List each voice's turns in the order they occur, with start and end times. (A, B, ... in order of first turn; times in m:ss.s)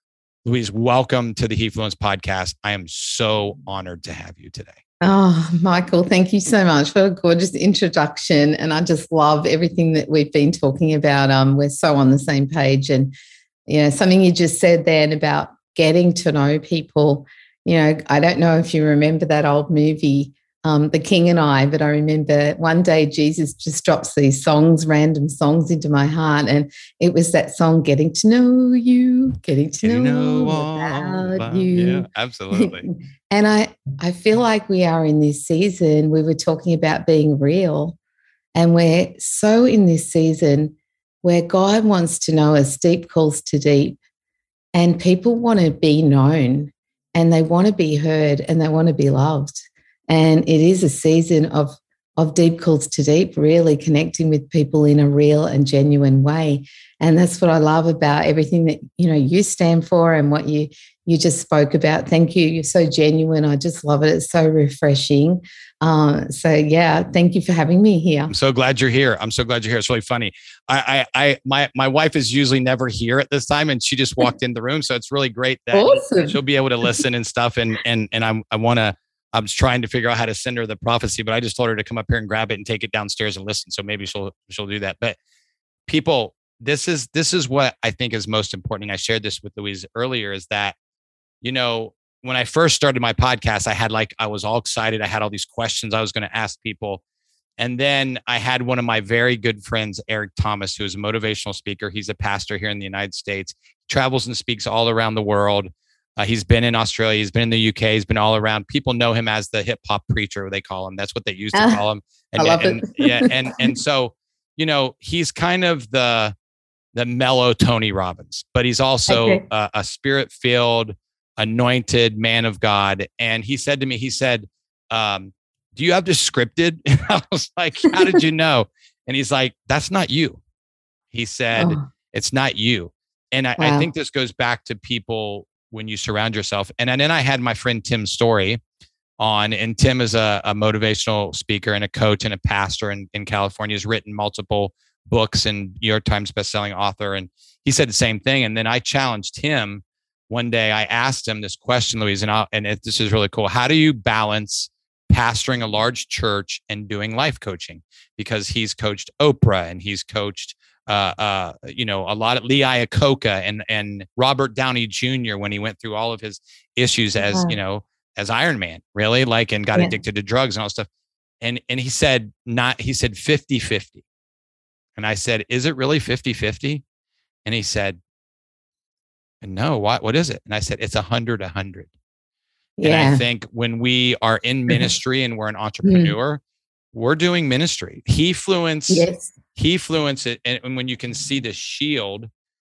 0:00.4-0:04.8 A
0:05.0-0:13.1 B
0:13.7-0:38.0 B
0:29.8-0:32.9 A
0:38.6-0:44.0 B
0:44.7-1:08.3 B
1:08.3-1:25.2 A
1:15.7-1:16.4 B
1:25.9-1:30.8 A
1:31.4-1:37.0 A
1:37.6-1:56.3 A
1:51.5-1:51.8 B
1:52.4-1:53.3 B
1:56.9-2:10.4 A
1:59.1-1:59.4 B
2:11.1-2:18.6 A
2:11.6-2:11.9 B
2:13.6-2:13.9 B
2:19.2-2:50.9 A
2:47.2-2:47.6 B
2:51.4-2:54.0 A
2:55.0-2:56.8 A
2:57.4-2:58.0 A
2:59.4-3:01.9 A
3:02.8-3:03.2 B
3:02.8-3:06.4 A
3:05.8-3:06.1 B
3:06.9-3:12.3 A
3:08.9-3:09.3 B